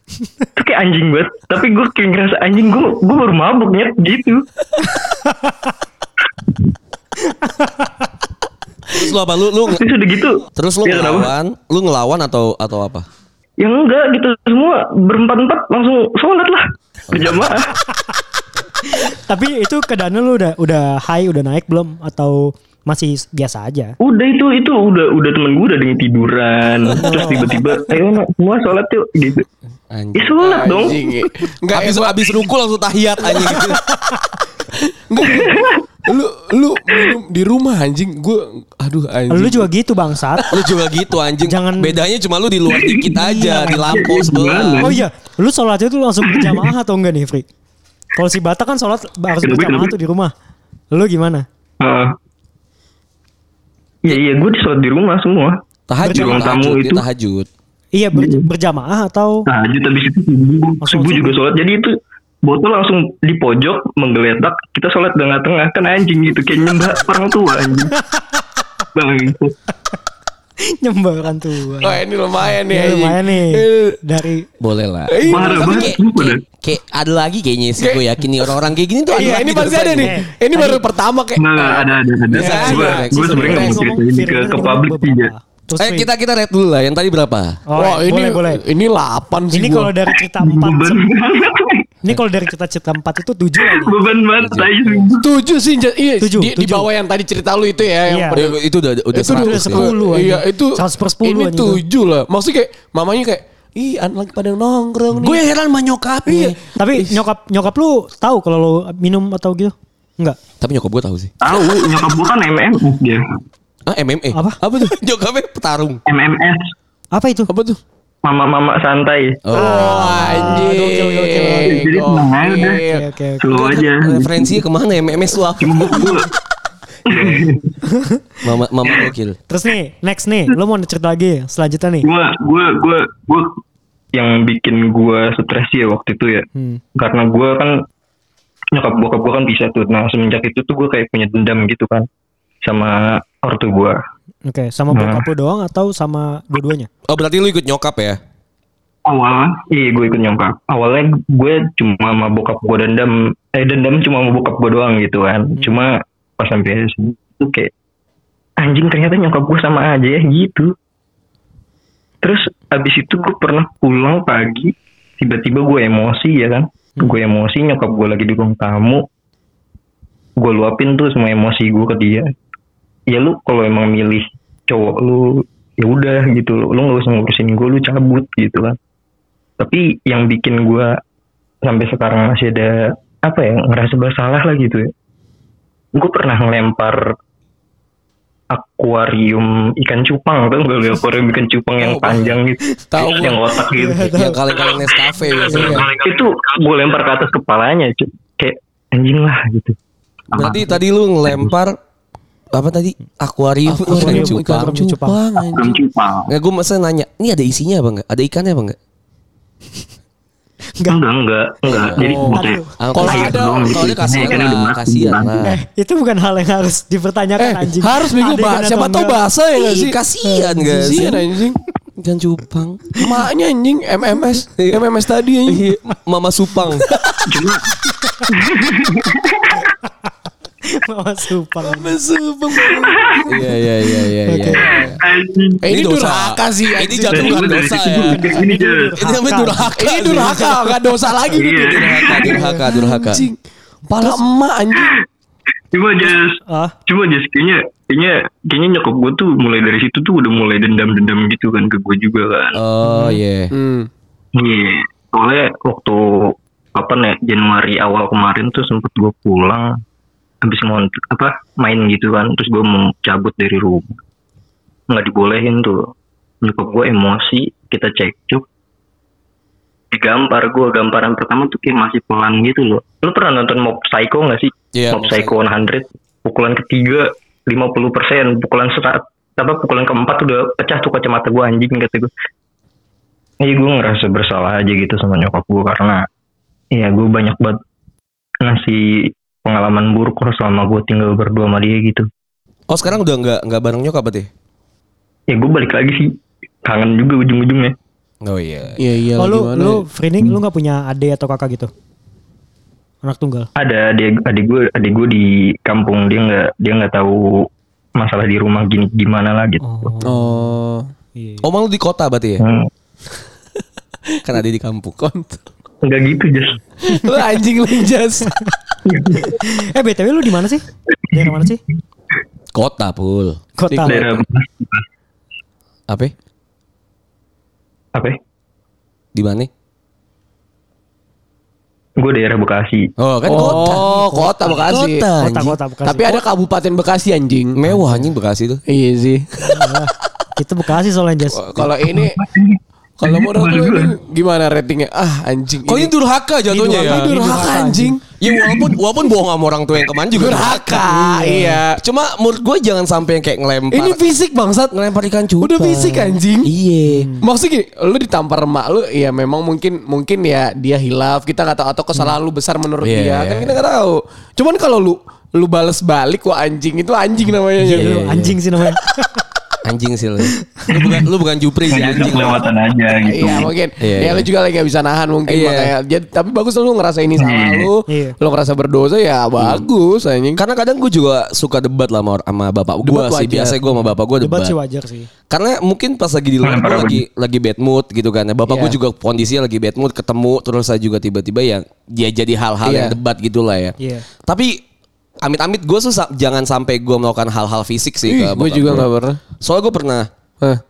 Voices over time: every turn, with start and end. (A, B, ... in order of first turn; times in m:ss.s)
0:00.6-0:04.4 A
0:04.9-0:05.5 B
0:07.4-0:07.9 B
0:08.9-0:09.8 C
0:09.7-0:11.3 A
0:10.5-0:13.0 C
0:13.6-0:17.7 A
0:17.1-0:17.5 C
0:18.9-0:23.9 B
0:24.0-0:29.4 A
0:26.9-0:27.6 B
0:29.9-0:30.8 C
0:30.2-0:31.0 A
0:30.4-0:32.4 D
0:31.7-0:33.8 C
0:34.8-0:39.7 D
0:35.3-0:35.8 A
0:39.3-0:40.5 B
0:40.5-0:45.0 C
0:41.4-0:42.0 B
0:42.7-0:43.1 A
0:43.2-0:44.0 B
0:43.9-0:45.0 A
0:44.8-0:47.4 B
0:46.3-0:46.6 A
0:48.1-0:50.3 B
0:49.4-0:49.9 A
0:50.9-0:51.4 B
0:51.8-0:52.1 A
0:54.0-0:55.6 A
0:55.9-0:57.5 C
0:56.0-0:56.5 B
0:56.1-0:57.0 A
0:57.9-0:59.4 B
0:58.1-0:58.4 A
0:59.5-1:01.9 A
1:00.8-1:01.4 B
1:02.4-1:07.9 A
1:08.9-1:09.5 A
1:10.8-1:12.0 B
1:11.8-1:14.0 D
1:12.6-1:14.5 B
1:14.6-1:20.1 C
1:15.1-1:15.9 D
1:15.2-1:16.4 A
1:17.8-1:18.0 D
1:19.1-1:23.8 D
1:19.2-1:20.8 B
1:21.4-1:25.3 A
1:22.3-1:23.8 C
1:22.4-1:26.1 B
1:25.8-1:27.6 C
1:27.7-1:28.6 B
1:27.8-1:29.9 D
1:29.5-1:31.0 B
1:30.3-1:31.8 A
1:32.0-1:34.0 B
1:33.6-1:35.3 A
1:34.4-1:35.0 C
1:35.1-1:38.6 D
1:36.2-1:36.9 B
1:38.1-1:38.4 B
1:38.3-1:39.9 C
1:39.1-1:45.4 D
1:39.2-1:41.8 B
1:45.1-1:46.6 C
1:46.2-1:47.2 D
1:46.8-1:50.4 B
1:50.6-1:51.3 C
1:51.4-1:53.2 A
1:53.8-1:56.0 C
1:56.1-1:56.6 A
1:57.1-1:57.5 B
1:57.5-1:57.8 D
1:58.2-1:59.4 A
1:59.4-2:00.6 C
1:59.5-2:03.0 D
1:59.6-2:01.8 B
2:01.5-2:02.8 A
2:02.9-2:03.8 B
2:03.4-2:04.6 A
2:04.0-2:06.2 C
2:05.6-2:06.3 A
2:07.1-2:07.7 A
2:07.8-2:08.2 B
2:08.4-2:09.4 C
2:09.5-2:12.1 B
2:12.0-2:13.5 A
2:14.1-2:16.4 A
2:16.5-2:16.8 B
2:17.0-2:17.8 A
2:18.7-2:22.0 A
2:22.6-2:24.0 A
2:24.5-2:26.9 B
2:24.9-2:25.2 A
2:27.1-2:28.2 C
2:29.0-2:37.7 A
2:38.6-2:40.7 A
2:42.2-2:49.0 A
2:50.4-2:52.2 A
2:53.1-2:58.7 A
2:59.6-3:00.9 A
3:01.6-3:02.7 A
3:03.2-3:04.9 A
3:06.0-3:07.0 A
3:08.5-3:14.1 A
3:11.8-3:12.4 D
3:12.9-3:13.4 D
3:13.7-3:14.4 B
3:14.1-3:15.9 C
3:14.6-3:19.8 A
3:15.5-3:15.9 B
3:15.5-3:15.9 D
3:20.3-3:21.5 A
3:20.3-3:21.7 C
3:22.5-3:24.7 C
3:23.6-3:25.8 D
3:23.9-3:25.2 B
3:25.5-3:26.3 A
3:26.3-3:28.8 C
3:30.9-3:35.4 A
3:31.7-3:32.0 C
3:31.9-3:34.4 D
3:32.1-3:32.6 B
3:32.8-3:35.5 C
3:35.4-3:39.2 B
3:37.4-3:40.0 D
3:39.6-3:41.2 C
3:40.5-3:41.6 D
3:42.0-3:43.0 C
3:43.0-3:45.6 D
3:44.6-3:44.9 C
3:45.4-3:46.8 C
3:47.3-3:47.7 A
3:48.0-3:48.3 B
3:48.3-3:49.6 A
3:50.8-3:52.0 B
3:51.6-3:53.3 D
3:53.2-3:54.8 C
3:54.2-3:54.8 B
3:54.5-3:55.0 D
3:55.0-3:55.6 A
3:55.6-3:57.8 D
3:55.7-3:58.3 C
3:57.1-3:58.9 A
3:57.9-3:59.7 B
3:59.0-4:00.6 C
3:59.8-4:03.4 D
4:01.3-4:02.4 A
4:01.6-4:03.3 C
4:02.3-4:02.6 B
4:03.9-4:04.9 D
4:05.7-4:06.3 A
4:06.5-4:06.8 B
4:06.9-4:12.6 A
4:12.5-4:13.5 C
4:12.8-4:13.2 B
4:13.5-4:13.9 D
4:14.3-4:19.7 A
4:20.4-4:24.0 A
4:24.9-4:25.8 A
4:26.4-4:28.4 A
4:29.9-4:42.1 A
4:34.7-4:35.3 C
4:43.4-4:46.0 A
4:46.7-4:47.6 A
4:48.4-4:48.8 A
4:49.4-4:52.0 A
4:52.7-4:54.3 C
4:55.3-4:56.1 A
4:56.6-4:57.7 A
4:58.2-4:58.8 C
4:58.8-4:59.8 D
4:59.2-5:01.7 B
5:03.0-5:03.5 B
5:03.6-5:07.2 A
5:08.0-5:09.9 A
5:09.6-5:10.6 B
5:10.0-5:10.9 D
5:11.1-5:11.4 B
5:11.4-5:12.4 C
5:12.4-5:12.7 A
5:14.2-5:15.0 C
5:15.0-5:15.4 D
5:15.8-5:16.6 A
5:16.8-5:18.4 D
5:18.8-5:19.4 A
5:19.2-5:21.6 B
5:22.5-5:23.4 C
5:23.6-5:24.1 B
5:23.7-5:24.1 D
5:23.9-5:24.8 A
5:29.1-5:29.5 C
5:32.0-5:32.9 A
5:33.0-5:35.6 C
5:33.2-5:35.0 D
5:35.2-5:36.2 B
5:35.8-5:37.6 D
5:37.5-5:38.6 C
5:37.7-5:38.0 B
5:38.7-5:39.7 D
5:39.5-5:41.7 B
5:41.3-5:42.1 D
5:42.0-5:43.9 A
5:43.0-5:45.9 D
5:45.6-5:47.4 C
5:46.5-5:48.0 B
5:46.8-5:48.2 D
5:48.2-5:50.8 C
5:48.4-5:48.7 A
5:50.1-5:51.8 D
5:50.9-5:51.6 B
5:51.8-5:54.0 C
5:53.7-5:54.8 D
5:54.7-5:57.1 C
5:55.4-5:56.5 D
5:56.9-5:57.2 B
5:57.2-6:08.0 D
6:02.8-6:03.6 C
6:07.6-6:09.2 B
6:07.6-6:08.3 C
6:09.6-6:12.5 C
6:10.6-6:11.0 B
6:11.7-6:13.5 A
6:12.1-6:12.5 B
6:13.0-6:20.4 D
6:13.8-6:14.3 C
6:15.3-6:15.7 C
6:17.2-6:17.6 A
6:17.9-6:18.2 B
6:19.4-6:19.7 C
6:20.4-6:24.5 C
6:22.8-6:23.6 D
6:24.2-6:25.1 B
6:25.3-6:33.7 C
6:26.4-6:27.0 A
6:28.5-6:28.8 D
6:32.6-6:33.0 D
6:33.8-6:34.0 B
6:34.3-6:34.5 C
6:35.2-6:38.9 C
6:38.0-6:39.2 D
6:39.4-6:40.1 C